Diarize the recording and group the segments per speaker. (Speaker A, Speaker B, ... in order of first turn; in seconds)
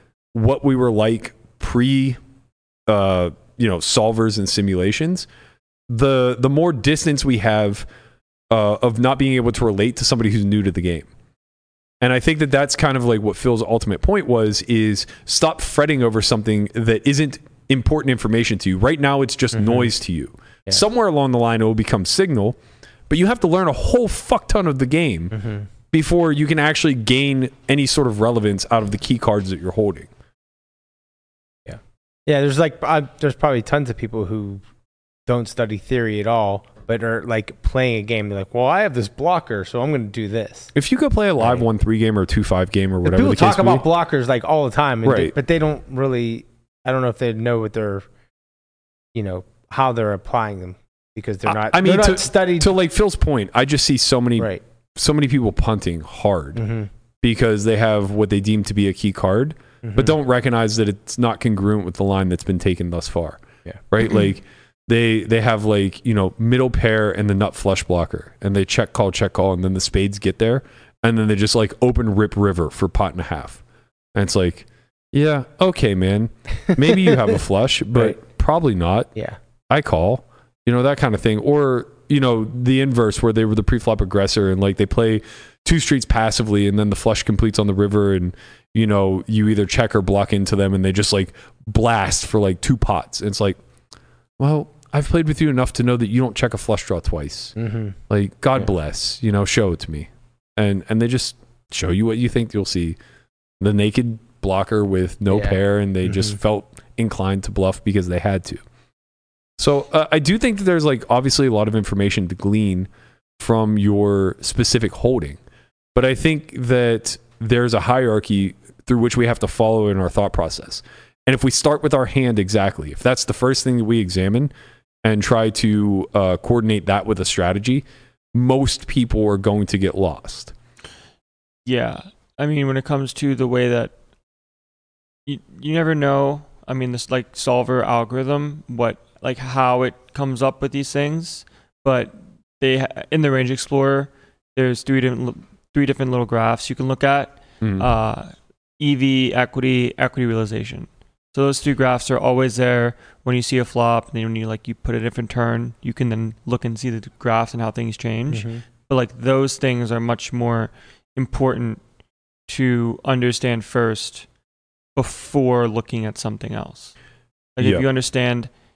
Speaker A: 0.3-2.2, 2.9-5.3, 5.9-7.9, 8.5-11.1, 12.0-22.6, 23.1-25.4, 25.9-30.1, 40.7-43.8, 45.0-45.3, 51.5-56.6, 57.2-73.6, 74.1-79.1, 79.7-93.6, 94.4-97.5, 98.1-103.0, 103.6-108.6, 109.6-115.4, 115.9-124.5, 125.0-130.5, 147.6-147.9, 167.6-167.8
Speaker B: 19.6-19.9, 25.3-25.6, 31.7-34.6, 35.3-40.7, 41.4-41.6, 43.0-48.0, 49.1-52.7, 56.5-56.9, 59.8-60.1, 97.5-98.0, 105.3-106.3, 158.3-158.6
Speaker C: 131.7-133.9, 135.3-161.8, 162.5-164.2, 164.9-166.9, 167.6-168.5